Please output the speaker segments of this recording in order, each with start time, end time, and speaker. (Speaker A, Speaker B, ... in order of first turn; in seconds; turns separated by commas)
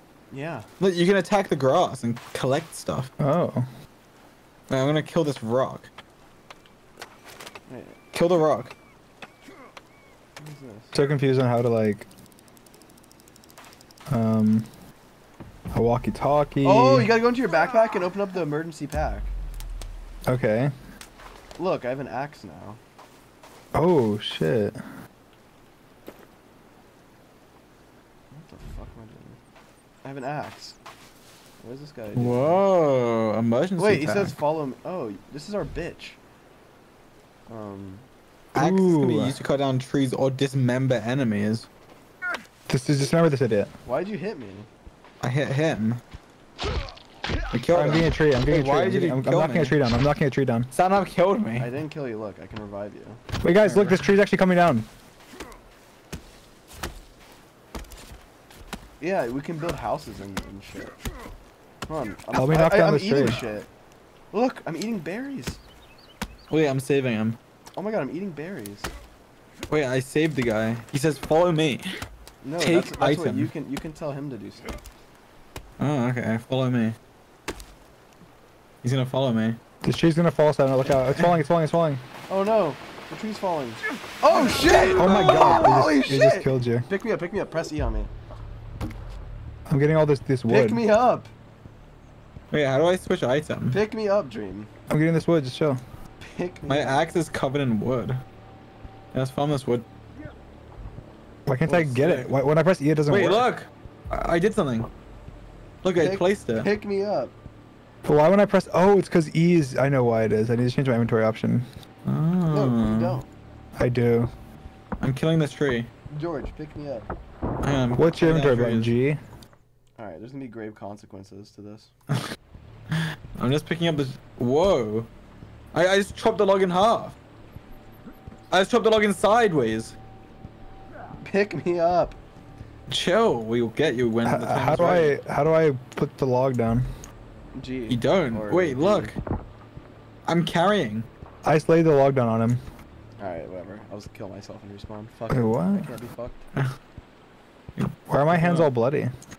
Speaker A: 0.3-0.7, Speaker B: 0.8-3.1, Speaker C: 3.2-3.7, Speaker B: 4.7-5.9, Speaker A: 7.7-8.0, Speaker B: 8.1-8.7, Speaker A: 10.4-10.9, Speaker C: 10.9-12.1, Speaker C: 14.1-14.7, Speaker C: 15.7-17.1, Speaker A: 16.6-19.3, Speaker C: 20.3-20.7, Speaker A: 21.6-22.8, Speaker C: 23.7-24.8, Speaker A: 28.3-29.4, Speaker A: 30.0-30.8, Speaker A: 31.6-32.6, Speaker B: 32.2-34.3, Speaker A: 33.8-36.2, Speaker A: 37.5-38.1, Speaker C: 38.5-39.4, Speaker B: 38.5-41.7, Speaker C: 42.7-43.7, Speaker A: 43.9-44.7, Speaker B: 45.2-46.0, Speaker B: 47.5-49.8, Speaker C: 47.7-50.7, Speaker B: 50.7-51.7, Speaker A: 51.6-54.0, Speaker C: 53.4-54.9, Speaker A: 59.0-61.0, Speaker A: 61.9-63.7, Speaker C: 62.3-63.4, Speaker A: 64.3-65.6, Speaker B: 66.5-67.4, Speaker A: 67.8-68.9, Speaker B: 69.7-72.0, Speaker A: 72.4-74.7, Speaker B: 72.6-73.5, Speaker B: 75.8-77.0, Speaker B: 78.8-79.6, Speaker C: 79.8-82.0, Speaker A: 82.3-88.1, Speaker C: 84.9-86.9, Speaker C: 89.7-90.8, Speaker A: 90.5-91.3, Speaker B: 92.5-93.8, Speaker A: 93.7-94.7, Speaker C: 94.9-95.8, Speaker A: 96.2-97.0, Speaker B: 96.7-98.2, Speaker B: 99.1-99.9, Speaker C: 101.5-103.5, Speaker B: 101.7-102.3, Speaker B: 103.1-104.9, Speaker B: 105.8-106.7, Speaker A: 105.9-107.3, Speaker C: 108.1-111.7, Speaker B: 112.1-113.2, Speaker A: 112.5-113.3, Speaker C: 113.8-114.3, Speaker B: 115.0-115.9, Speaker A: 116.1-117.1, Speaker B: 117.6-118.9, Speaker C: 118.0-119.2, Speaker A: 120.0-121.9, Speaker B: 122.9-125.1, Speaker B: 125.7-127.2, Speaker B: 128.5-129.9, Speaker A: 131.2-132.2, Speaker B: 132.9-135.2, Speaker C: 134.2-136.9, Speaker A: 137.6-139.1, Speaker B: 137.9-139.2, Speaker B: 140.3-141.1, Speaker C: 141.4-142.6, Speaker A: 143.2-146.4, Speaker C: 145.3-145.9, Speaker B: 147.8-148.7, Speaker C: 148.1-149.1